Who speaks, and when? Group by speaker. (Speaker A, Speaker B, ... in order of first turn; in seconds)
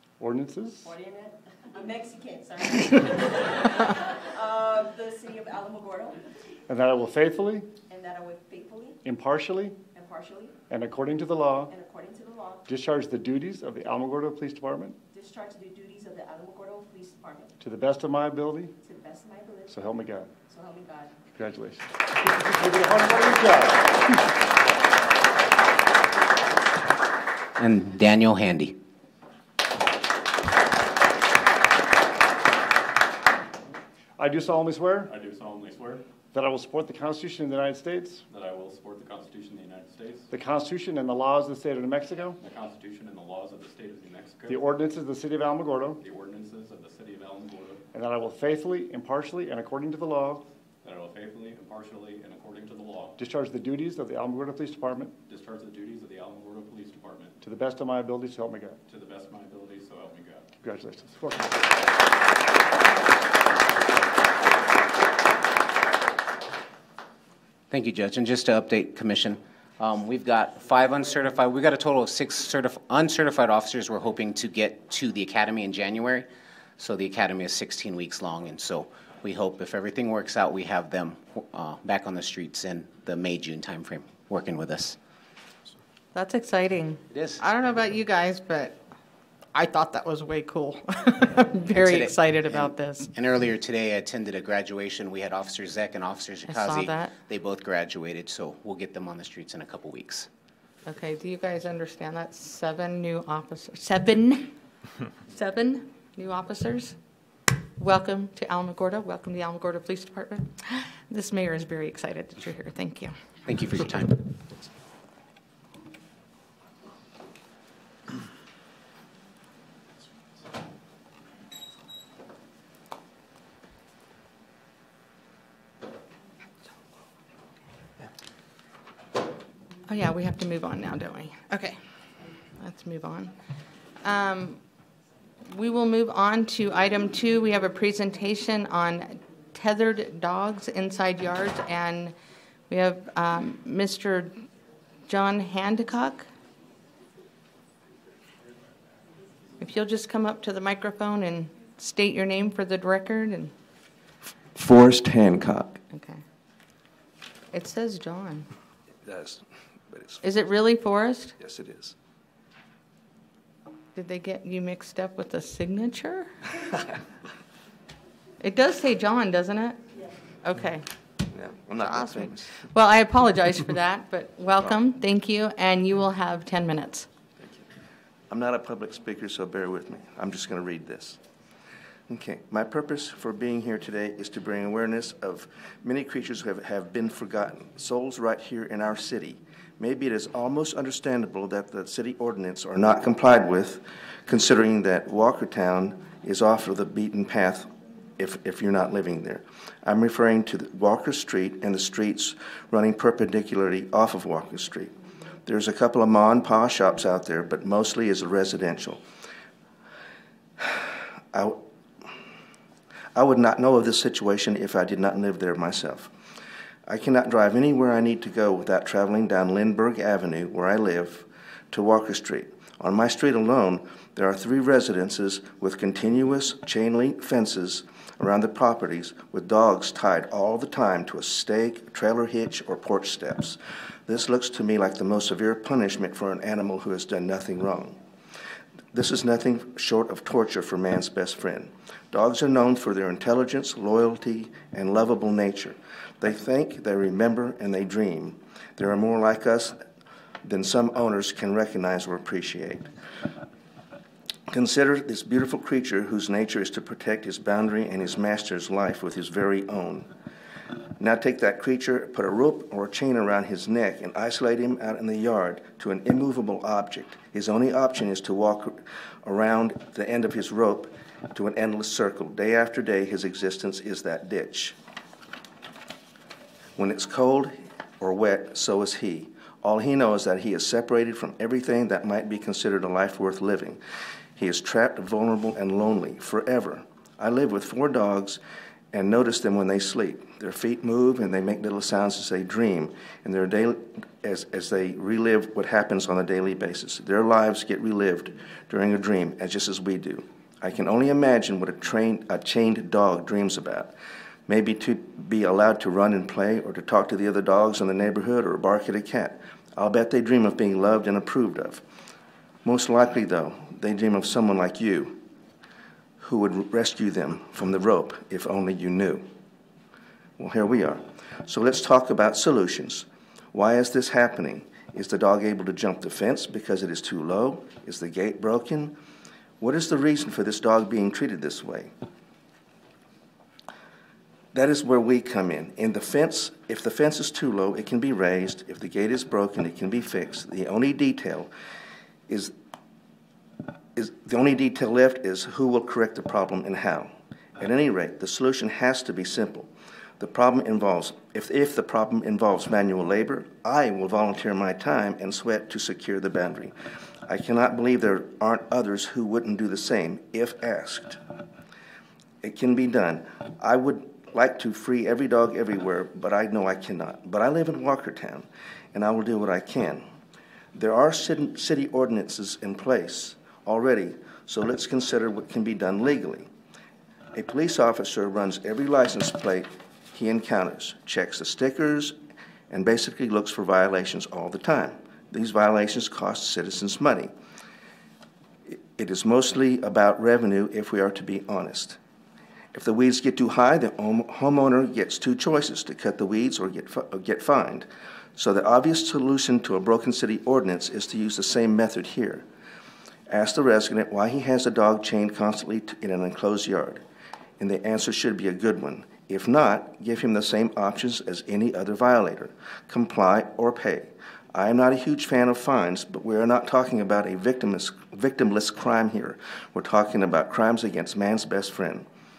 Speaker A: 0.2-0.9, 6.7-7.7, 9.0-9.8, 10.7-11.7, 12.7-15.0, 17.6-18.8, 19.7-20.3, 21.3-24.2, 34.2-35.1, 36.3-38.2, 40.3-42.4, 44.5-46.0, 47.9-50.5, 53.2-55.2, 57.4-58.8, 60.6-61.6
Speaker B: 0.8-6.2, 7.9-9.0, 9.9-10.6, 11.7-12.6, 15.1-17.5, 18.8-19.8, 20.5-21.1
Speaker C: 27.6-28.8, 67.7-76.3, 76.8-85.0, 87.1-87.5, 91.7-100.3, 113.5-114.2
Speaker D: 35.1-36.0, 38.3-40.3, 42.4-44.7, 46.0-47.9, 50.8-53.2, 55.3-57.4, 58.9-60.5
Speaker E: 86.1-88.8, 89.5-93.1, 96.5-97.1, 100.8-104.6, 105.3-107.0, 107.8-113.2, 129.9-133.3, 134.0-134.6, 135.5-142.1, 142.7-144.5, 145.1-146.3, 149.6-153.5, 155.9-156.2, 157.5-158.5, 160.2-161.4, 163.9-166.5, 168.4-169.9, 170.4-170.9, 171.8-177.1
Speaker F: 154.6-155.8, 159.0-160.2, 161.4-161.9, 171.3-172.6, 178.3-181.2, 182.1-204.9, 205.4-209.0, 210.6-211.6, 213.2-216.1, 216.9-238.0, 238.9-249.8, 250.4-252.9, 254.5-260.1, 261.0-274.8, 276.8-283.8, 284.4-288.4, 288.9-303.9, 304.5-311.8, 312.6-315.2, 316.2-319.3, 320.4-329.0, 329.6-331.9, 334.5-341.5, 342.3-342.5, 343.9-361.2, 362.4-370.1, 370.7-376.5, 377.3-382.2, 382.7-387.3, 388.7-392.0, 392.7-402.4, 403.3-407.0, 407.6-422.1